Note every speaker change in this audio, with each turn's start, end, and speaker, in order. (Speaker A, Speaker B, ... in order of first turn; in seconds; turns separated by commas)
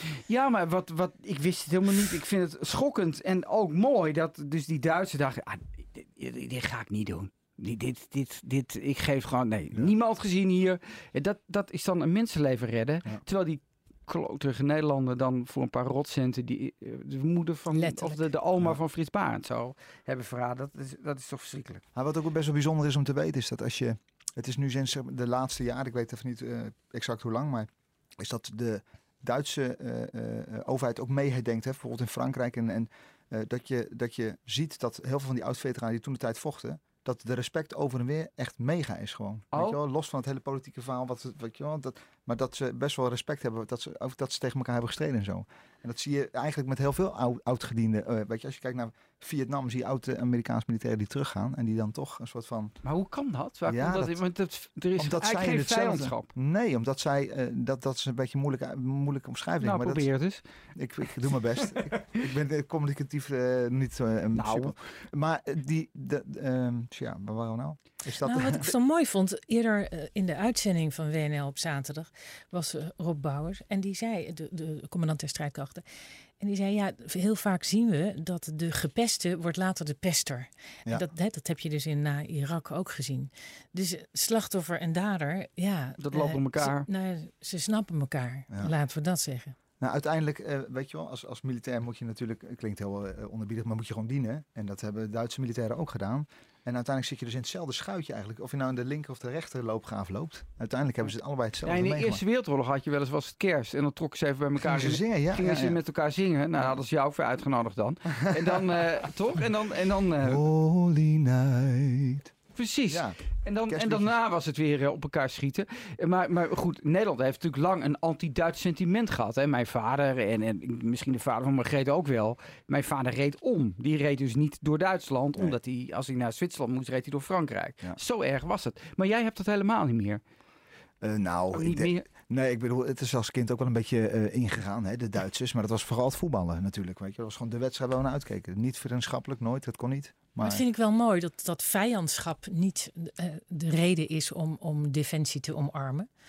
Speaker A: 0.1-21.8, Speaker B: 17.7-18.2, Speaker C: 21.9-27.7, Speaker C: 28.2-52.7, Speaker A: 39.5-39.8, Speaker A: 52.8-56.3, Speaker C: 53.6-54.2, Speaker C: 55.0-60.1, Speaker A: 59.6-60.4, Speaker C: 60.8-68.7, Speaker A: 61.2-62.0, Speaker A: 64.3-64.7, Speaker B: 68.2-75.8, Speaker B: 76.4-89.5, Speaker A: 86.0-86.9, Speaker C: 89.8-102.2, Speaker A: 101.7-110.4, Speaker C: 104.6-105.8, Speaker C: 108.2-108.6, Speaker C: 110.2-112.3, Speaker A: 112.5-130.2, Speaker C: 112.9-113.2, Speaker C: 113.7-114.2, Speaker C: 131.0-140.6, Speaker A: 131.5-132.0, Speaker B: 140.4-146.1